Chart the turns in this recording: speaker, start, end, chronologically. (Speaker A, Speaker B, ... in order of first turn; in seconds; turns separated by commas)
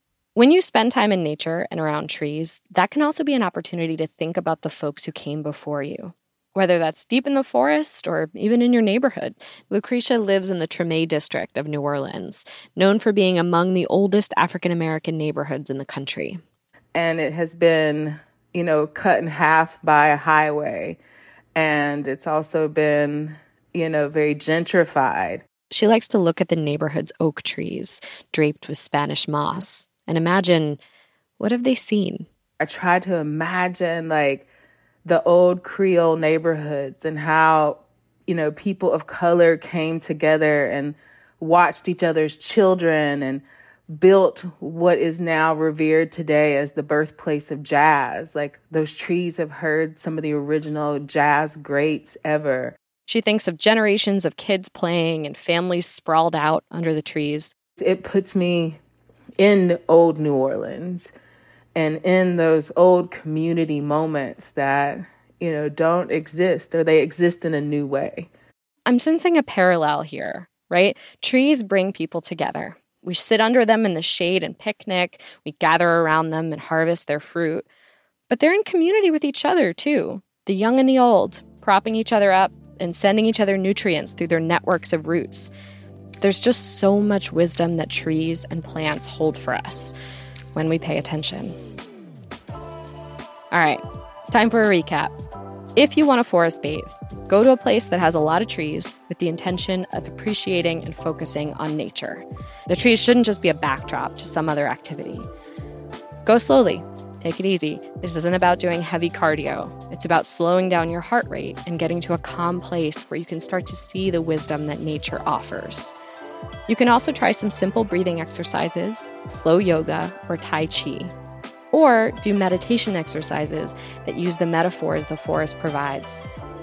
Speaker A: 0.3-16.4, Speaker B: 16.9-21.0, Speaker B: 21.5-25.4, Speaker A: 25.7-30.8, Speaker A: 31.4-32.2, Speaker B: 32.6-34.5, Speaker B: 35.0-52.8, Speaker A: 53.1-57.5, Speaker B: 57.8-58.8, Speaker B: 59.4-61.1, Speaker B: 61.8-68.3, Speaker A: 68.9-77.7, Speaker A: 78.3-85.5, Speaker A: 86.2-89.9, Speaker A: 90.5-91.5, Speaker A: 93.5-95.1, Speaker A: 95.8-105.3, Speaker A: 106.2-115.9, Speaker A: 116.7-121.1, Speaker A: 121.7-126.2